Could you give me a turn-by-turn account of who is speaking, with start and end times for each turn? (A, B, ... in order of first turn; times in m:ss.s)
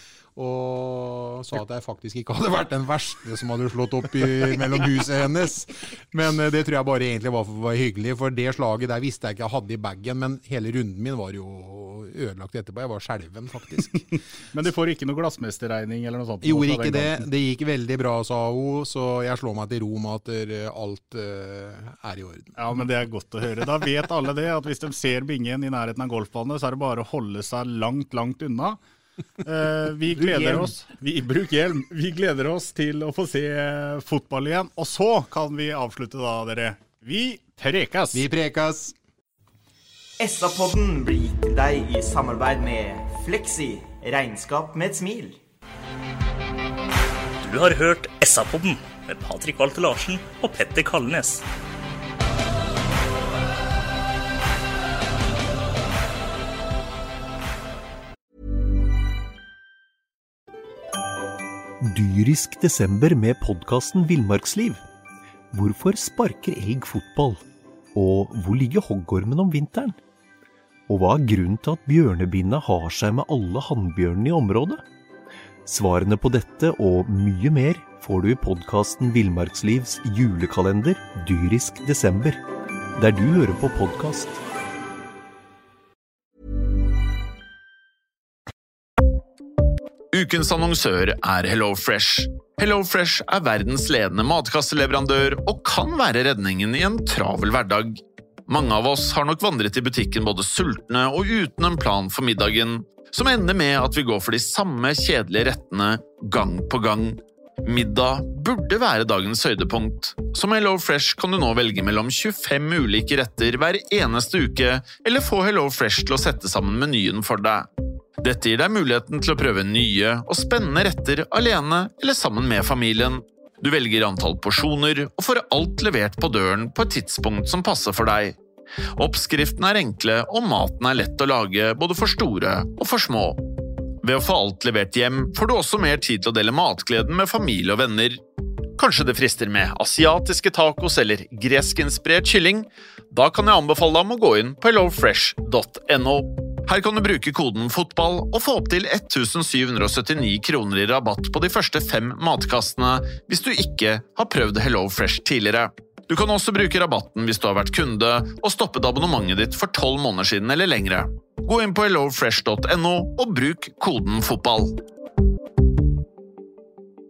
0:00.4-0:14.0 A
0:14.1-0:17.2 B
0:16.4-0:22.6 A
0:22.6-0:28.8 B
0:29.4-0:38.3 B
0:30.2-0:30.7 A
0:38.1-0:39.0 A
0:40.2-0:45.4 C
0:47.4-0:51.4 D
1:01.8-1:04.8 E
1:05.5-1:07.4 E
1:08.0-1:10.0 E
1:10.9-1:14.8 E
1:15.7-1:22.4 E
1:23.0-1:24.4 E
1:30.1-1:57.7 F
1:58.2-2:08.4 F
2:09.0-2:13.4 F
2:14.0-2:18.2 F
2:18.8-2:44.8 F